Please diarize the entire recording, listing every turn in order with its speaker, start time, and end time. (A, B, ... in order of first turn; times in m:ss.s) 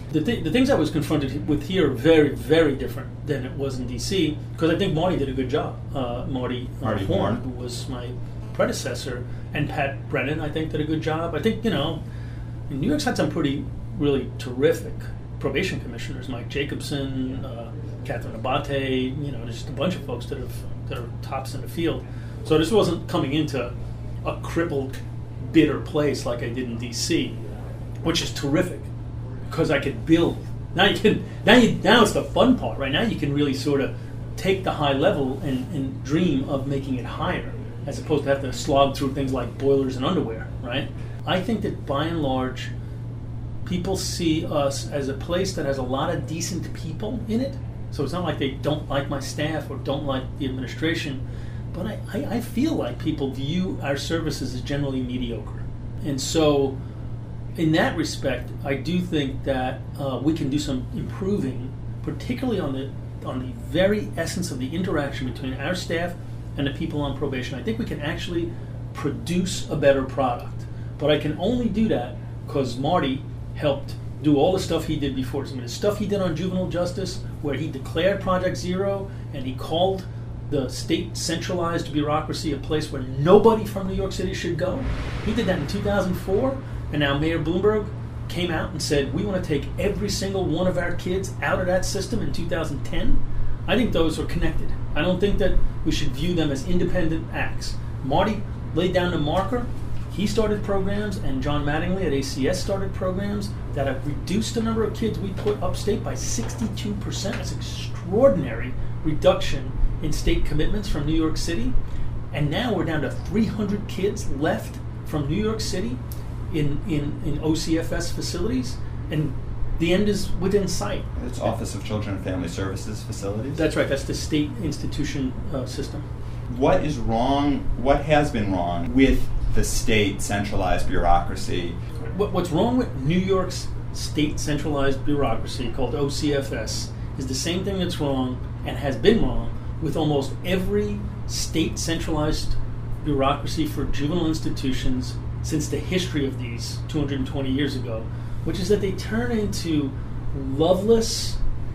0:00.1-0:12.0 A
0:06.8-0:07.4 B
0:12.7-0:23.7 A
0:24.2-0:25.0 A
0:25.5-0:27.4 A
0:28.0-0:28.9 A
0:29.5-0:42.7 A
0:43.6-0:51.2 A
0:51.7-0:56.7 A
0:57.6-1:51.7 A
1:52.3-1:56.0 A
1:56.5-2:01.0 A
2:01.2-2:03.6 B
2:03.6-2:06.0 A
2:06.5-2:11.8 B
2:12.1-2:31.4 A